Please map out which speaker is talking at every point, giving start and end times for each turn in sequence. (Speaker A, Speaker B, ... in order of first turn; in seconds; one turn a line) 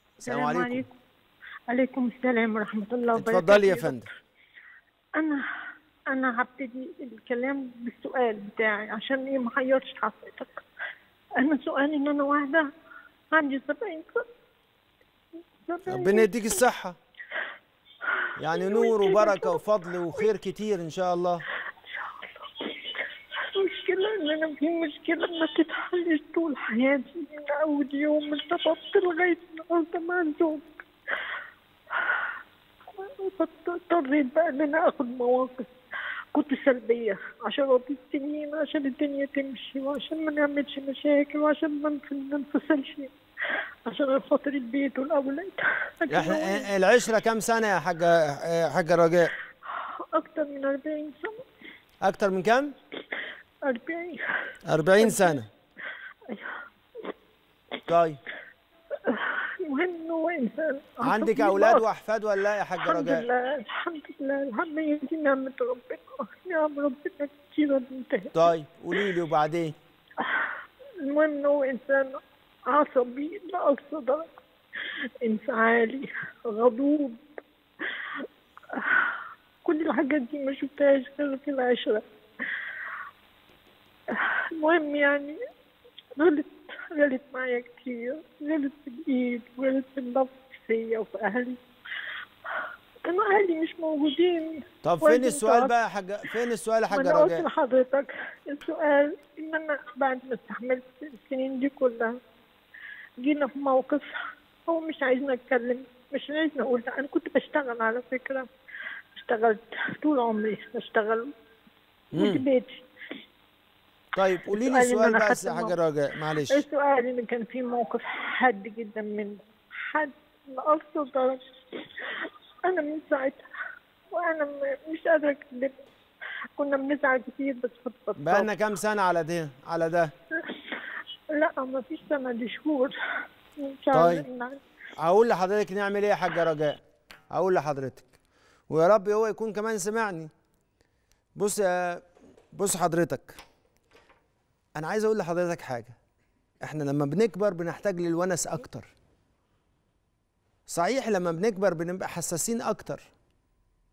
Speaker A: 0.2-0.8
Speaker B: 0.3-0.9
Speaker B: 1.7-4.0
Speaker A: 3.1-4.1
Speaker B: 5.2-5.4
Speaker B: 6.1-10.6
Speaker B: 11.4-12.7
Speaker B: 13.3-14.3
Speaker B: 15.7-16.6
Speaker A: 15.9-17.0
Speaker B: 18.2-19.6
Speaker A: 18.4-21.5
Speaker B: 21.8-30.8
Speaker B: 31.9-32.3
Speaker B: 32.9-35.7
Speaker B: 36.3-43.1
Speaker B: 43.9-46.7
Speaker A: 46.1-49.3
Speaker B: 49.7-51.4
Speaker A: 52.0-52.7
Speaker B: 53.6-54.2
Speaker A: 54.7-55.5
Speaker B: 55.0-55.4
Speaker B: 56.3-56.6
Speaker A: 57.9-58.2
Speaker B: 59.0-61.8
Speaker A: 61.0-63.2
Speaker B: 62.8-68.3
Speaker A: 68.3-69.8
Speaker B: 70.2-74.3
Speaker B: 75.2-77.2
Speaker B: 77.8-82.1
Speaker B: 84.1-85.4
Speaker B: 86.2-91.6
Speaker B: 92.6-95.7
Speaker A: 94.8-97.5
Speaker B: 96.9-102.1
Speaker B: 103.2-108.5
Speaker B: 109.1-111.3
Speaker A: 112.1-112.4
Speaker B: 112.1-112.8
Speaker A: 114.1-116.6
Speaker B: 114.5-115.8
Speaker B: 116.5-123.4
Speaker B: 124.1-125.8
Speaker B: 126.6-128.5
Speaker A: 128.2-130.1
Speaker B: 130.4-130.8
Speaker B: 131.3-132.9
Speaker B: 133.6-134.6
Speaker A: 133.9-134.2
Speaker A: 135.0-136.8
Speaker A: 137.3-138.2
Speaker A: 138.7-140.3
Speaker A: 141.4-143.4
Speaker A: 144.8-145.9
Speaker A: 146.6-148.9
Speaker A: 150.7-153.1